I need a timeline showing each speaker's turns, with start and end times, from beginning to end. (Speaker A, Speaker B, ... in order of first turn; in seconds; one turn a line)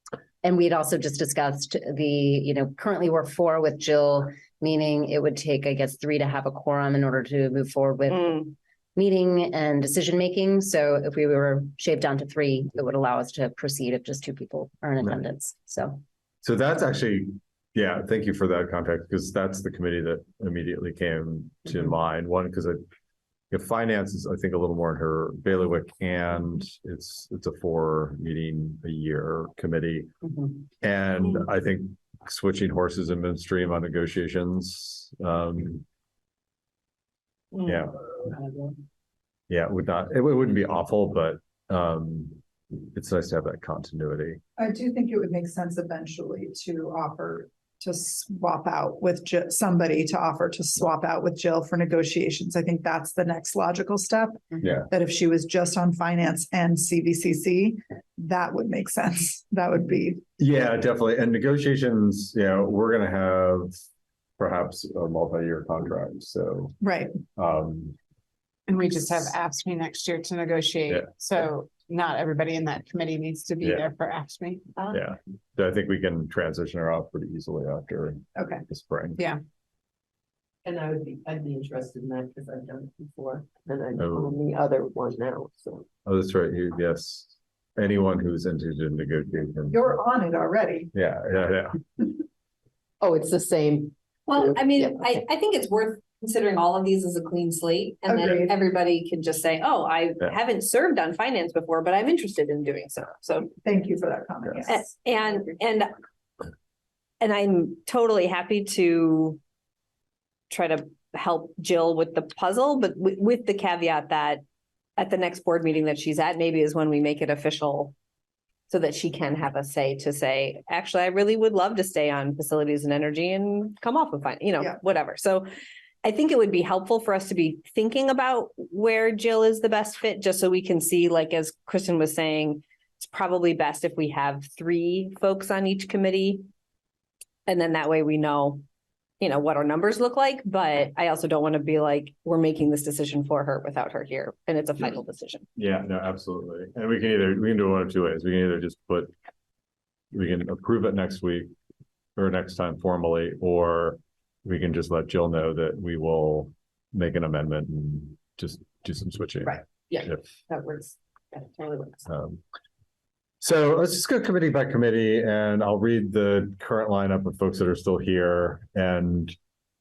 Speaker A: 0.4-16.0
Speaker B: 8.1-8.5
Speaker C: 16.4-22.8
Speaker C: 23.5-30.1
Speaker C: 30.8-35.8
Speaker B: 37.5-37.8
Speaker C: 37.6-37.9
Speaker C: 39.5-44.4
Speaker D: 44.6-54.4
Speaker C: 54.6-54.9
Speaker D: 54.9-60.2
Speaker C: 60.4-63.7
Speaker C: 64.4-66.8
Speaker D: 66.8-67.1
Speaker C: 67.4-68.0
Speaker E: 68.7-74.7
Speaker C: 73.6-73.9
Speaker C: 74.9-79.2
Speaker F: 80.6-85.8
Speaker C: 84.0-84.4
Speaker C: 86.0-89.9
Speaker D: 89.7-90.9
Speaker C: 90.9-91.8
Speaker F: 93.0-95.2
Speaker B: 94.3-103.5
Speaker D: 98.1-98.5
Speaker D: 103.6-104.8
Speaker B: 104.7-105.9
Speaker B: 107.2-109.4
Speaker B: 110.5-114.4
Speaker B: 115.0-117.9
Speaker B: 118.7-125.5
Speaker B: 126.0-136.4
Speaker B: 137.5-138.6
Speaker B: 139.2-145.4
Speaker C: 145.6-149.1
Speaker C: 150.1-151.5
Speaker C: 152.2-160.2
Speaker B: 159.9-161.4
Speaker F: 161.4-161.9
Speaker C: 162.1-162.4
Speaker C: 163.4-169.3